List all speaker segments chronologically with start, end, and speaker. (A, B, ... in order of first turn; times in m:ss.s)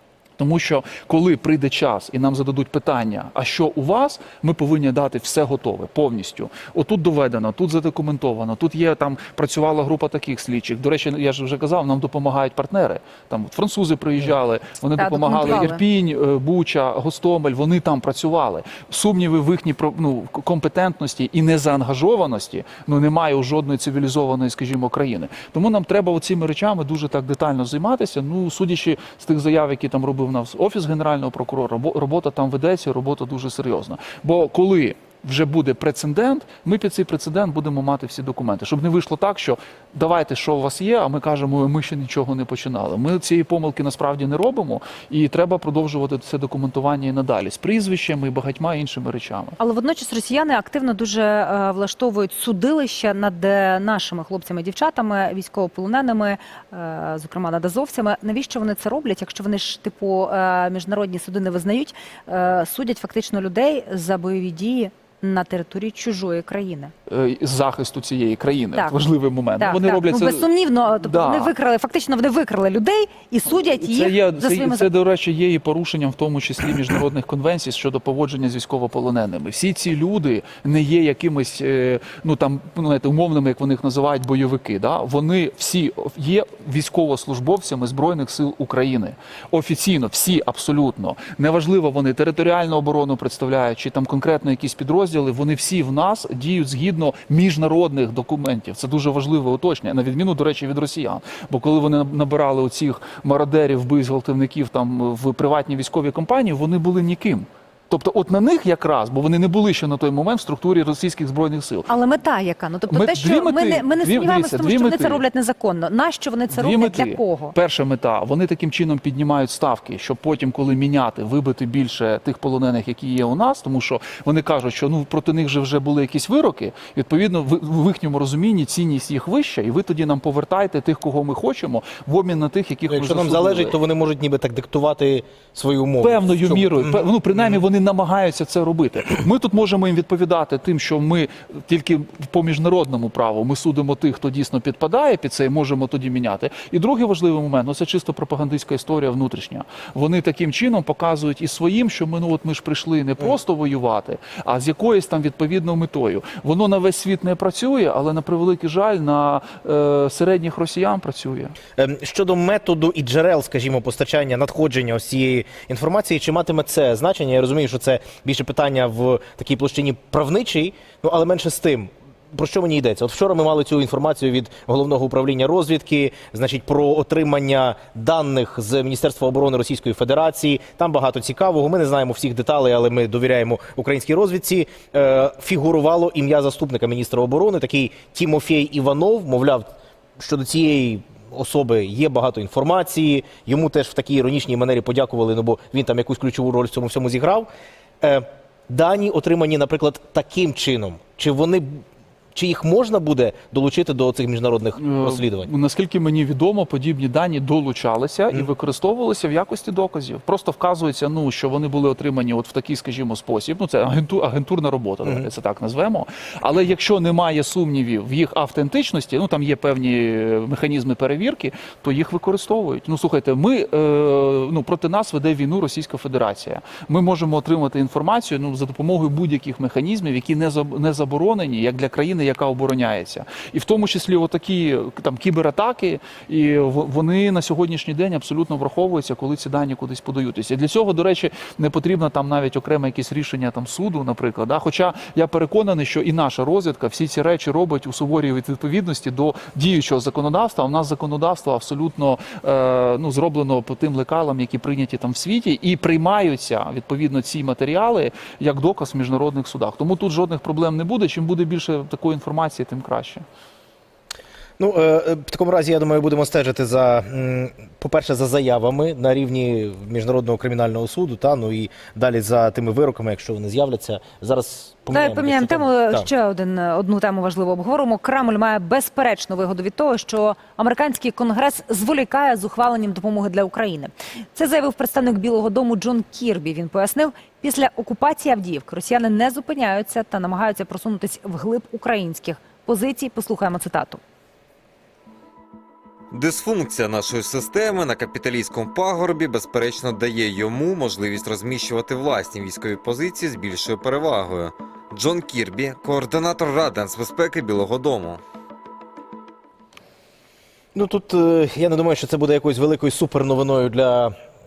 0:00.4-0:49.6 A
0:15.0-0:15.8 B
0:49.6-1:06.9 B
1:07.1-1:10.5 A
1:09.6-1:14.9 B
1:11.0-1:11.5 A
1:13.7-1:51.9 A
1:51.9-1:57.6 B
1:52.9-1:55.2 A
1:56.5-2:13.7 A
2:12.9-2:17.5 C
2:16.0-2:41.6 A
2:41.8-3:17.5 C
3:18.0-3:25.5 C
3:24.8-4:23.2 A
4:24.6-4:36.1 C
4:34.9-4:54.0 B
4:56.1-5:08.2 D
5:10.8-5:14.2 C